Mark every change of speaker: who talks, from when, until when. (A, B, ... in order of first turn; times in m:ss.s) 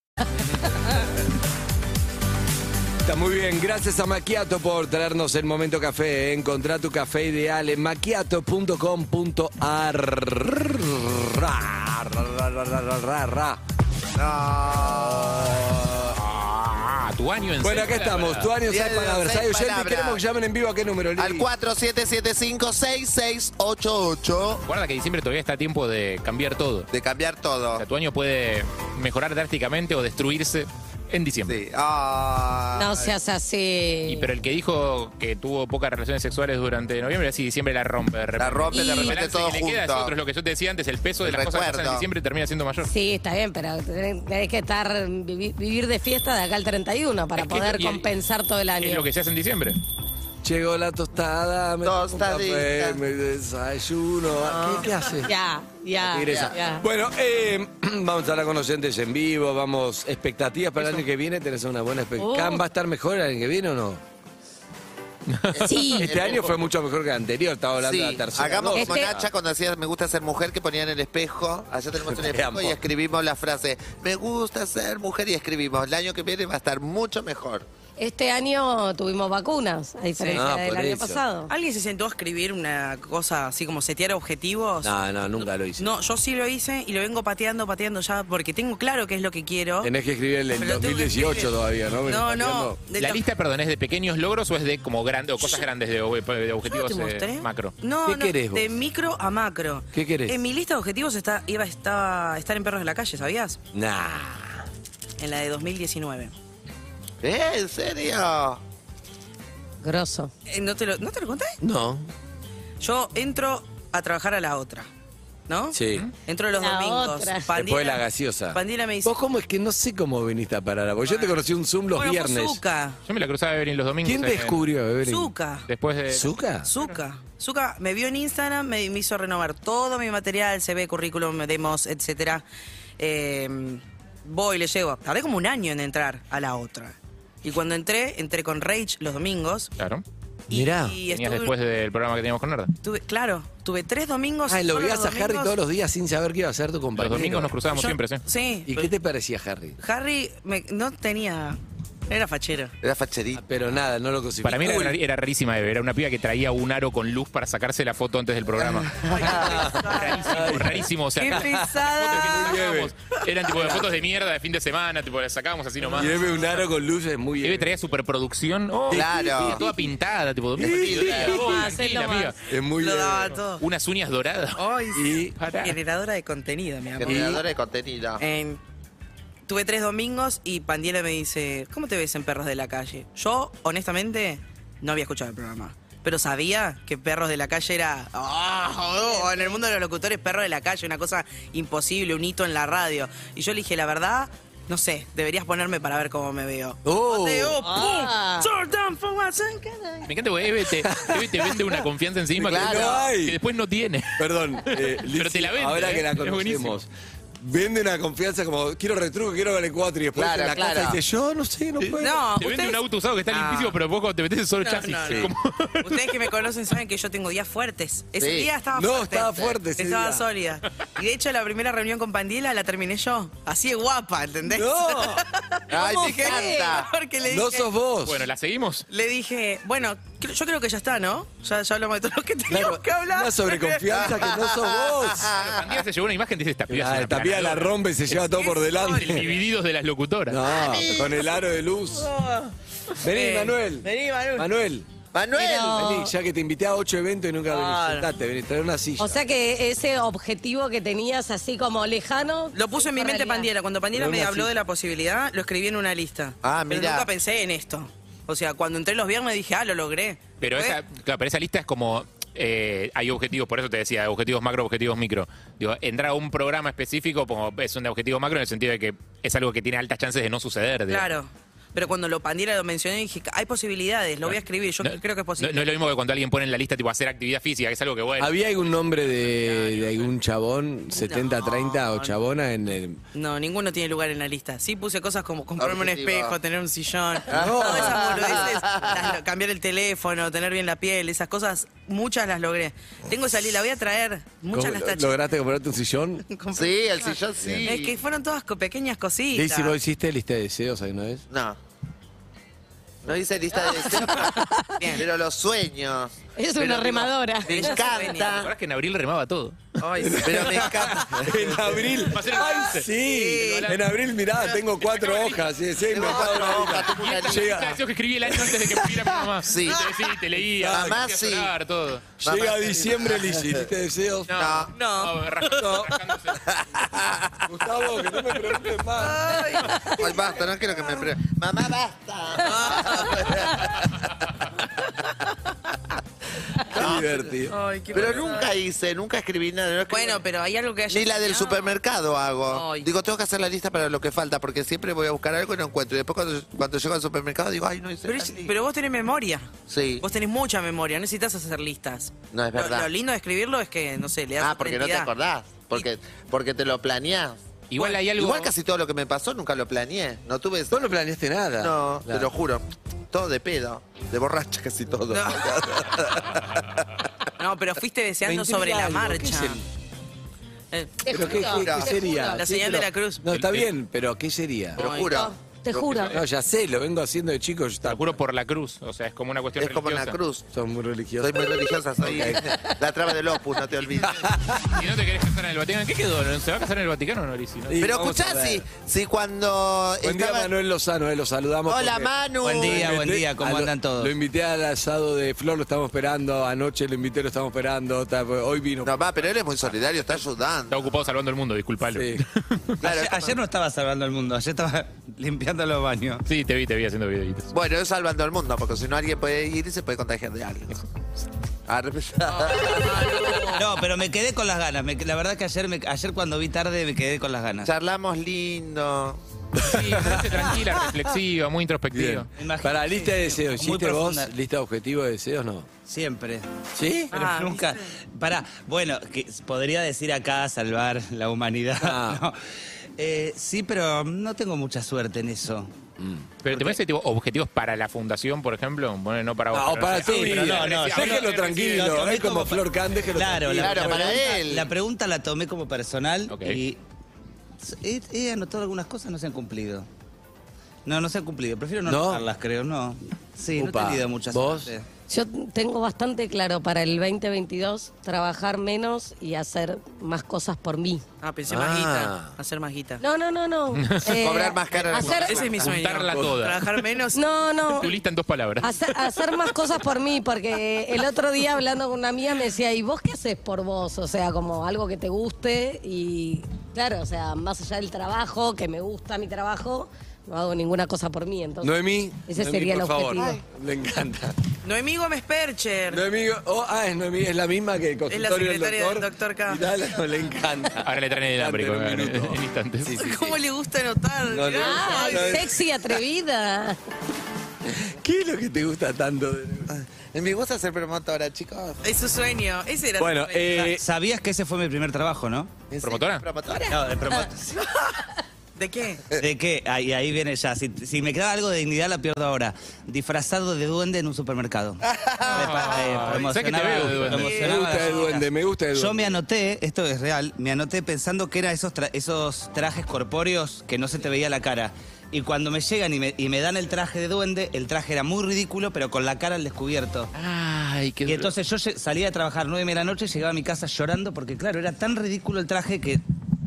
0:03.0-0:13.6 A
0:14.2-0:15.6 B
0:15.5-0:16.1 A
0:16.2-0:18.5 C
0:17.6-0:21.4 A
0:18.6-0:20.2 B
0:21.2-0:24.6 B
0:24.7-0:26.9 C
0:26.9-0:27.8 B
0:27.8-0:31.6 C
0:31.5-0:33.1 B
0:32.8-0:34.3 D
0:34.1-0:42.9 C
0:38.4-0:40.1 B
0:38.7-0:39.2 D
0:41.2-0:42.0 B
0:42.8-0:49.0 D
0:47.4-0:48.0 C
0:48.8-0:49.8 C
0:50.4-0:55.3 A
0:51.8-0:53.0 B
0:55.2-0:56.8 D
0:56.0-1:04.0 A
0:56.2-0:56.6 B
1:02.2-1:02.6 D
1:05.3-1:05.9 C
1:05.5-1:06.6 B
1:05.6-1:06.1 D
1:06.0-1:09.3 A
1:07.8-1:17.7 B
1:08.7-1:09.2 D
1:12.0-1:12.8 A
1:18.0-1:21.5 D
1:20.3-1:21.2 A
1:21.5-1:29.9 E
1:24.8-1:25.9 A
1:29.8-1:32.8 A
1:30.5-1:33.2 E
1:33.0-1:37.8 C
1:36.7-1:43.6 E
1:38.0-1:38.7 A
1:39.9-1:40.4 A
1:43.7-1:44.6 A
1:45.2-1:46.3 E
1:47.2-1:48.6 B
1:49.8-1:50.3 D
1:50.4-1:51.6 E
1:51.6-1:52.1 A
1:52.8-1:54.9 E
1:55.5-1:59.1 E
1:55.7-1:56.1 A
1:56.6-1:57.4 D
1:57.5-2:02.6 A
2:01.0-2:03.0 E
2:03.1-2:04.7 C
2:04.0-2:05.3 A
2:05.0-2:05.7 E
2:05.7-2:06.3 C
2:06.1-2:06.7 A
2:06.7-2:12.4 E
2:13.0-2:19.7 E
2:19.8-2:20.0 C
2:20.5-2:21.5 E
2:20.5-2:21.0 A
2:21.1-2:22.7 C
2:22.8-2:25.6 E
2:24.5-2:27.6 A
2:27.0-2:28.2 C
2:27.7-2:28.9 E
2:28.7-2:29.8 A
2:29.8-2:32.7 E
2:32.8-2:33.4 B
2:33.4-2:35.0 A
2:34.4-2:46.4 C
2:38.9-2:42.6 E
2:39.2-2:42.9 A
2:45.9-2:47.8 A
2:47.4-2:52.4 C
2:48.9-2:49.6 B
2:48.9-2:49.7 A
2:50.6-2:51.5 A
2:50.6-2:51.3 B
2:51.3-2:52.3 D
2:52.5-2:53.4 A
2:52.8-2:53.6 E
2:53.6-2:54.6 C
2:54.6-2:55.1 E
2:54.9-2:55.4 A
2:55.4-2:55.8 C
2:55.6-2:57.4 E
2:57.0-2:58.2 B
2:57.0-2:57.4 A
2:58.2-2:58.6 E
2:59.4-3:20.0 E
3:09.0-3:09.6 D
3:16.8-3:17.6 A
3:17.6-3:18.5 D
3:20.1-3:26.8 C
3:20.7-3:21.8 A
3:22.4-3:23.0 B
3:22.4-3:23.4 A
3:22.8-3:23.0 E
3:24.2-3:32.2 A
3:30.1-3:31.0 B
3:32.0-3:33.8 E
3:32.4-3:36.1 C
3:34.6-3:35.3 E
3:35.1-3:35.3 A
3:35.8-3:47.7 E
3:38.2-3:38.5 B
3:38.8-3:40.2 A
3:44.4-3:45.2 A
3:45.7-3:46.9 B
3:47.2-3:48.2 A
3:48.0-3:48.8 C
3:48.9-3:54.0 E
3:52.5-3:55.3 A
3:53.9-3:55.8 B
3:55.3-3:57.8 C
3:56.7-3:59.3 A
3:58.1-3:59.4 E
3:58.9-4:00.4 C
4:00.3-4:02.1 A
4:00.4-4:01.2 B
4:02.0-4:04.5 E
4:03.0-4:04.9 A
4:05.1-4:06.0 B
4:05.3-4:06.1 D
4:05.7-4:09.2 A
4:07.4-4:08.1 E
4:09.0-4:13.5 D
4:12.5-4:20.8 E
4:13.9-4:14.5 A
4:16.4-4:17.1 B
4:20.4-4:31.1 C
4:30.9-4:35.7 E
4:34.2-4:38.3 C
4:38.2-4:43.0 A
4:39.4-4:40.0 E
4:40.9-4:42.2 E
4:43.1-4:55.2 E
4:45.6-4:46.4 B
4:47.3-4:49.1 B
4:47.3-4:48.5 A
4:54.5-4:56.2 A
4:56.3-4:59.8 E
4:56.5-4:58.0 B
4:57.4-4:57.7 A
4:59.3-5:01.2 A
5:01.3-5:01.6 B
5:03.0-5:08.5 B
5:04.8-5:05.1 E
5:06.4-5:07.7 D
5:07.4-5:08.4 E
5:08.3-5:09.6 C
5:09.8-5:11.0 E
5:10.0-5:17.8 A
5:10.2-5:12.0 B
5:12.1-5:13.8 C
5:12.3-5:13.7 E
5:14.8-5:15.4 C
5:15.9-5:17.6 B
5:16.1-5:22.1 C
5:19.4-5:19.9 B
5:20.6-5:21.1 A
5:20.6-5:21.5 B
5:22.2-5:24.3 A
5:22.2-5:23.7 B
5:24.3-5:26.4 C
5:24.3-5:24.7 B
5:24.8-5:26.0 E
5:25.5-5:25.9 A
5:26.5-5:27.4 B
5:27.5-5:29.6 A
5:29.0-5:30.2 E
5:30.0-5:33.9 B
5:32.4-5:33.5 E
5:36.6-5:37.4 B
5:36.7-5:38.1 A
5:37.5-5:38.5 E
5:37.9-5:40.2 B
5:39.9-5:41.7 E
5:40.9-5:48.5 B
5:42.5-5:42.9 E
5:48.0-5:55.1 E
5:49.7-5:50.0 B
5:52.3-5:52.9 B
5:54.4-5:57.4 B
5:57.7-5:58.5 C
5:58.2-6:00.9 B
6:00.7-6:02.3 A
6:01.6-6:06.8 B
6:05.1-6:05.6 E
6:07.4-6:09.6 E
6:08.2-6:09.6 A
6:10.7-6:11.7 E
6:11.0-6:12.4 D
6:11.1-6:14.8 A
6:11.4-6:11.9 B
6:12.4-6:13.2 E
6:13.3-6:13.7 C
6:14.8-6:15.2 E
6:14.8-6:16.2 B
6:15.0-6:16.2 D
6:15.9-6:16.2 C
6:16.1-6:18.2 A
6:17.8-6:20.2 C
6:19.6-6:20.4 B
6:20.5-6:22.7 A
6:21.2-6:24.2 B
6:24.0-6:24.8 A
6:24.6-6:27.9 C
6:27.7-6:28.6 A
6:27.8-6:30.5 B
6:30.0-6:39.0 A
6:31.6-6:32.9 B
6:32.4-6:34.1 F
6:38.8-6:40.9 B
6:40.7-6:42.8 C
6:41.9-6:42.2 A
6:42.8-6:43.4 B
6:42.8-6:46.2 F
6:46.3-6:47.5 C
6:47.5-6:50.8 B
6:51.7-6:53.1 B
6:52.2-6:53.7 E
6:53.5-6:57.7 F
6:57.6-6:59.2 B
6:59.6-7:00.5 A
6:59.6-7:02.3 C
7:01.9-7:05.7 A
7:02.3-7:04.3 F
7:05.9-7:06.4 F
7:06.8-7:07.1 A
7:07.1-7:12.4 F
7:07.1-7:07.9 E
7:11.8-7:12.2 A
7:13.0-7:15.7 F
7:16.0-7:16.3 A
7:16.4-7:22.2 C
7:16.5-7:16.8 F
7:19.5-7:24.4 A
7:20.0-7:26.8 F
7:23.5-7:24.7 B
7:26.3-7:26.6 C
7:27.6-7:29.9 F
7:30.9-7:34.9 F
7:31.8-7:32.2 A
7:33.6-7:34.7 A
7:35.1-7:41.0 D
7:41.2-7:43.0 E
7:41.5-7:42.3 A
7:43.0-7:45.5 D
7:43.7-7:44.2 C
7:44.1-7:45.6 B
7:44.9-7:46.8 C
7:45.1-7:47.5 E
7:46.1-7:46.5 A
7:47.1-7:47.9 D
7:47.7-7:49.0 C
7:48.6-8:01.7 D
8:01.6-8:04.3 A
8:02.2-8:03.3 D
8:04.6-8:06.0 E
8:05.9-8:13.4 A
8:08.1-8:09.6 E
8:10.8-8:13.1 C
8:13.0-8:15.4 E
8:14.3-8:16.0 A
8:14.6-8:16.8 D
8:17.7-8:19.7 A
8:19.7-8:21.8 B
8:21.8-8:23.8 E
8:23.0-8:23.8 A
8:23.7-8:25.5 F
8:25.7-8:26.8 B
8:25.8-8:26.2 C
8:26.7-8:27.4 F
8:28.6-8:29.1 E
8:29.1-8:50.1 F
8:34.8-8:35.6 B
8:35.3-8:37.5 C
8:37.1-8:39.2 A
8:37.1-8:38.1 E
8:50.1-8:51.3 C
8:51.0-8:56.0 F